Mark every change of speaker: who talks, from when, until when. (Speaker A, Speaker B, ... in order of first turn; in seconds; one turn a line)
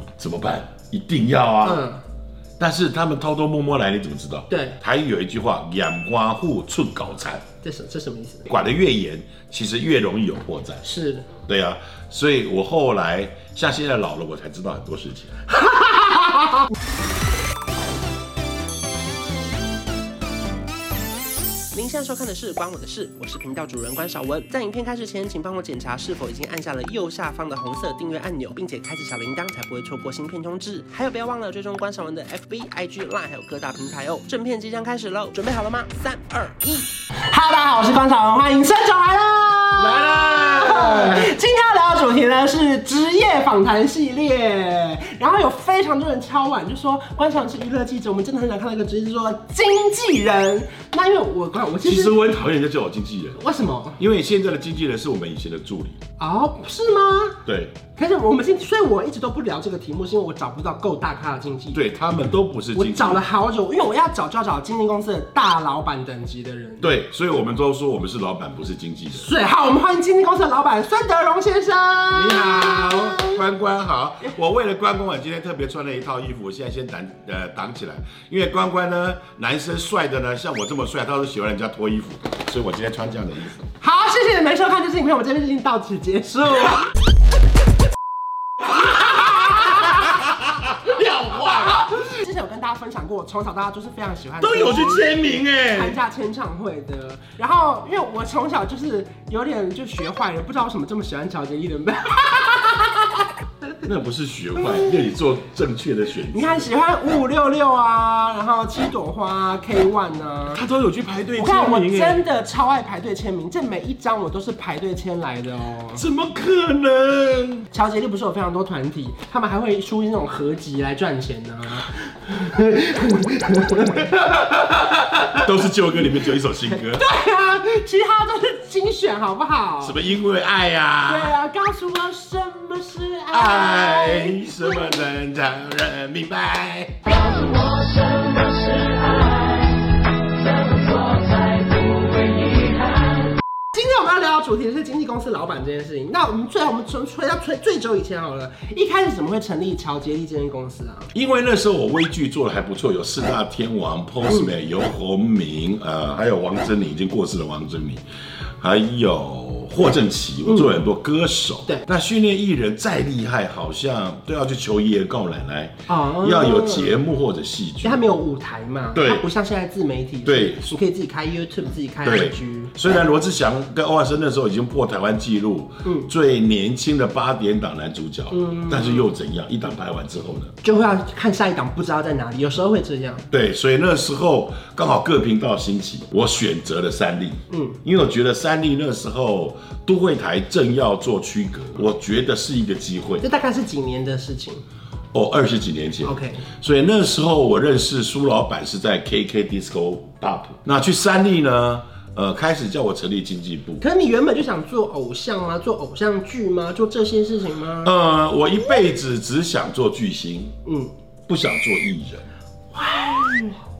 Speaker A: 0.2-1.8
Speaker B: 1.6-2.0
Speaker A: 2.6-7.4
Speaker B: 4.5-4.8
Speaker B: 7.6-8.5
Speaker A: 8.5-10.8
Speaker B: 10.8-11.3
Speaker A: 11.4-15.4
Speaker B: 15.6-16.7
Speaker B: 21.7-52.1
Speaker A: 39.8-41.3
Speaker A: 51.8-53.4
Speaker B: 53.4-54.0
Speaker A: 54.0-56.0
Speaker B: 56.2-57.4
Speaker A: 57.5-57.8
Speaker B: 57.9-61.8
Speaker A: 61.7-63.2
Speaker B: 62.7-67.0
Speaker A: 66.8-69.3
Speaker B: 69.1-73.4
Speaker A: 72.1-83.6
Speaker B: 83.8-86.9
Speaker A: 89.1-90.1
Speaker A: 90.7-91.9
Speaker B: 91.3-95.1
Speaker A: 94.4-96.0
Speaker B: 95.7-103.3
Speaker A: 103.8-106.7
Speaker B: 106.3-110.6
Speaker A: 110.5-112.2
Speaker B: 111.3-116.0
Speaker A: 115.9-117.7
Speaker B: 117.7-124.3
Speaker A: 125.3-127.0
Speaker B: 126.7-130.0
Speaker A: 129.8-131.3
Speaker B: 131.0-135.0
Speaker A: 133.3-137.0
Speaker C: 137.3-139.8
Speaker C: 140.5-143.2
Speaker B: 143.7-151.1
Speaker A: 151.1-158.0
Speaker A: 158.6-168.0
Speaker B: 160.5-160.8
Speaker B: 165.9-167.0
Speaker B: 167.8-172.9
Speaker A: 168.9-169.3
Speaker A: 170.2-170.7
Speaker A: 172.0-180.5
Speaker B: 175.8-176.1
Speaker B: 178.3-179.1
Speaker B: 180.6-183.2
Speaker A: 183.3-193.2
Speaker B: 187.5-187.8
Speaker B: 193.2-194.6
Speaker A: 195.1-203.8
Speaker B: 196.0-196.4
Speaker B: 203.8-207.9
Speaker A: 207.8-210.5
Speaker B: 210.6-210.9
Speaker A: 211.3-212.2
Speaker B: 212.7-213.6